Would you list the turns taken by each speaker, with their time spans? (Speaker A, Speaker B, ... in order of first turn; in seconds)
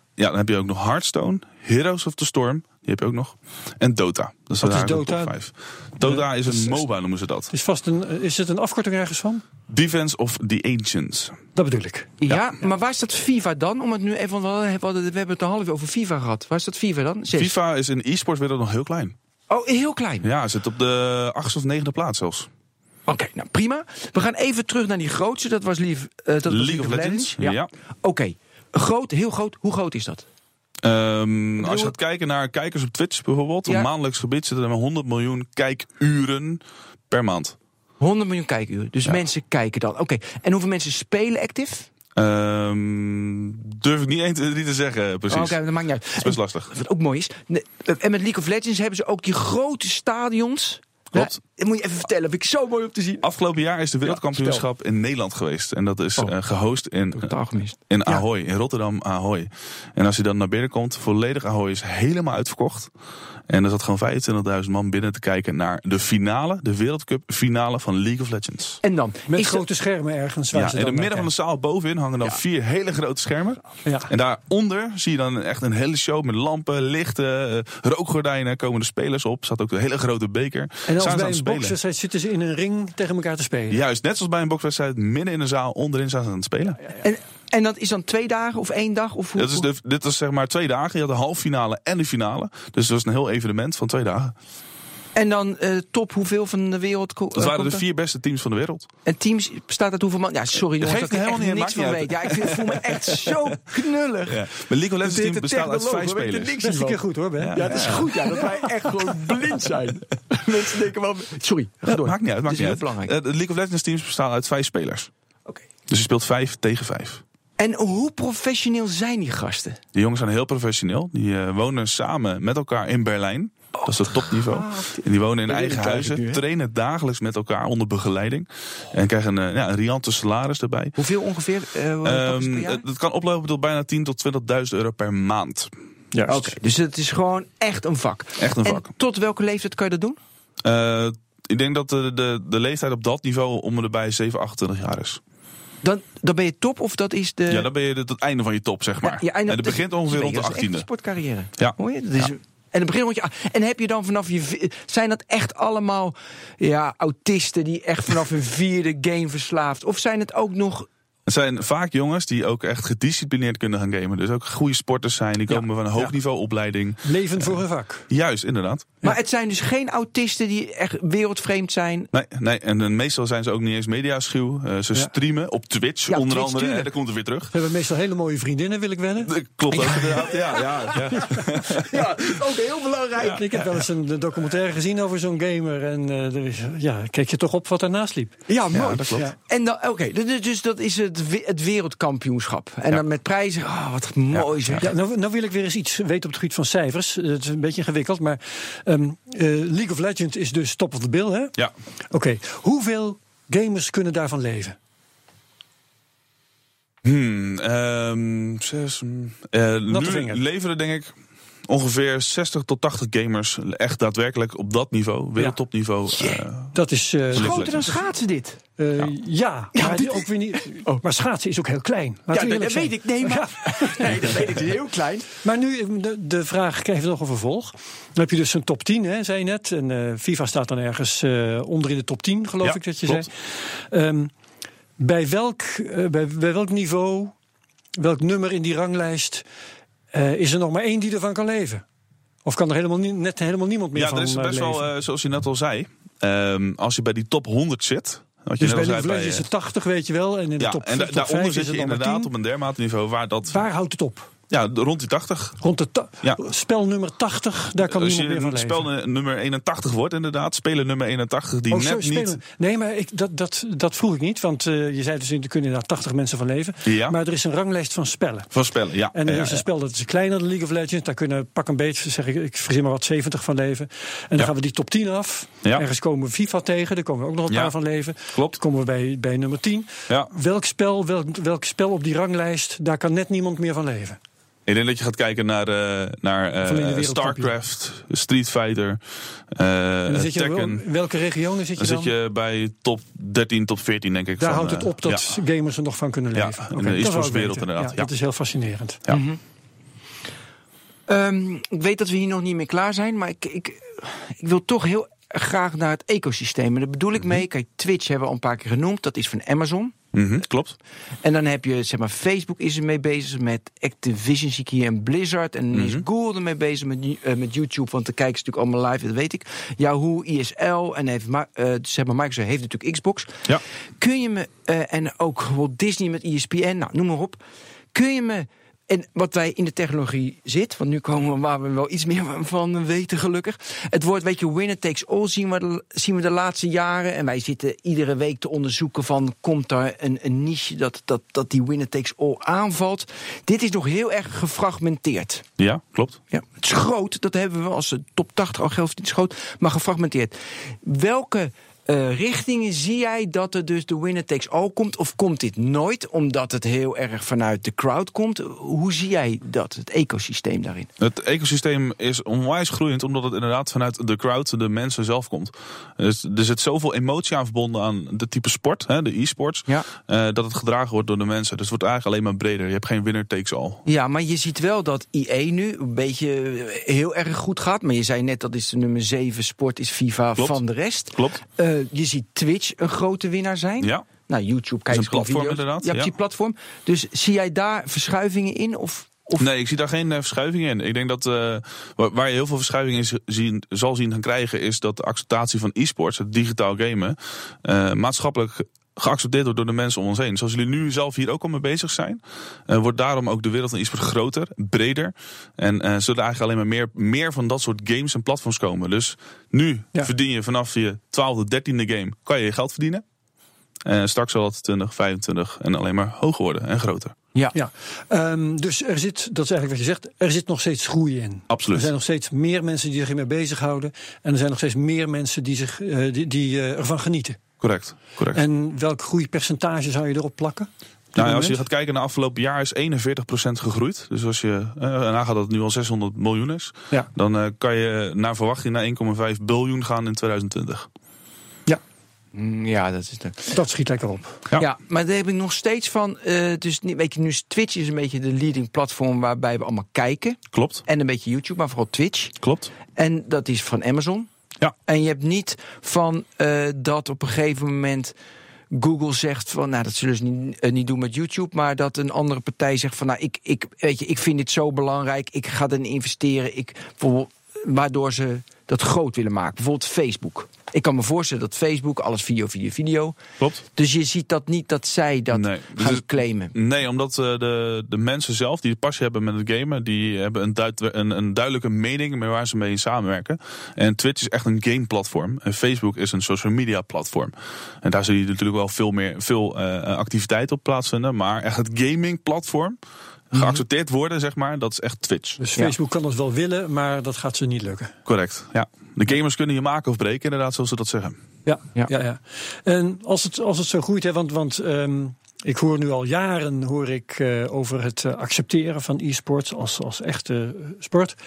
Speaker A: 0.2-7.5, 9.7-11.4, 17.3-19.1, 20.2-22.5, 26.5-27.7, 30.8-37.6, 42.2-45.6, 46.2-46.7, 53.2-57.3, 57.9-62.9, 63.5-68.8, 70.5-81.8, 83.7-86.8, 89.4-94.3, 97.3-98.9, 100.8-103.5, 104.3-106.6, 107.4-108.3, 111.8-115.1, 115.9-117.2, 120.0-131.0, 132.0-135.7, 138.4-138.9, 140.6-145.2, 147.5-150.9, 151.6-152.3, 161.3-169.0, 172.1-177.5, 179.2-182.3, 183.2-183.8, 188.7-189.3, 194.3-194.9, 207.0-211.1, 211.7-216.8, 217.3-217.9, 232.6-233.3, 243.9-249.5, 250.6-253.6, 254.5-255.6, 257.8-262.4, 266.9-267.2, 268.5-269.6, 277.5-277.7, 278.3-278.6, 284.7-289.0, 289.5-290.9, 291.8-295.3, 296.3-298.1, 310.1-310.8, 315.7-316.1, 345.6-346.2, 361.0-373.8, 383.8-384.1, 384.9-386.1, 389.4-413.0, 413.8-417.2, 421.5-421.9, 427.6-428.4, 431.1-440.9, 450.5-450.8, 452.4-452.7, 475.3-492.8, 493.3-495.4, 498.1-501.2
Speaker B: 4.6-5.3, 6.0-6.8, 7.5-9.4, 11.6-12.1, 69.3-71.3, 80.9-83.8, 106.6-108.4, 136.1-136.5, 167.0-168.1, 177.5-179.3, 183.3-188.4, 194.8-201.6, 202.1-204.8, 209.9-210.4, 216.7-217.9, 218.8-224.3, 225.4-234.3, 235.0-237.3, 238.0-239.4, 240.1-241.8, 242.4-244.9, 248.6-252.3, 253.5-254.3, 255.6-258.9, 261.7-268.5, 269.1-284.2, 286.6-287.5, 290.1-292.1, 294.4-299.0, 417.5-427.4, 428.3-431.6, 443.5-444.4, 495.4-497.9, 501.4-511.2
Speaker C: 12.2-17.5, 19.5-20.3, 23.1-30.2, 31.6-31.9, 38.0-41.9, 45.3-53.3, 54.1-54.6, 57.2-57.8, 68.8-69.6, 87.0-89.7, 95.2-97.8, 99.1-104.5, 105.0-113.2, 117.6-119.8, 123.8-126.4, 131.0-132.8, 136.3-140.2, 145.8-147.7, 149.0-160.9, 169.0-172.1, 176.1-176.9, 179.7-183.4, 188.5-194.9, 216.2-216.4, 217.3-218.6, 219.8-221.0, 222.3-225.3, 299.1-299.4, 301.1-309.9, 311.2-323.5, 324.0-327.4, 327.9-345.5, 346.3-360.9, 373.9-389.5, 442.3-443.6, 444.6-452.4, 452.9-454.3, 454.9-458.1, 458.7-473.2, 473.8-476.6, 493.3-493.6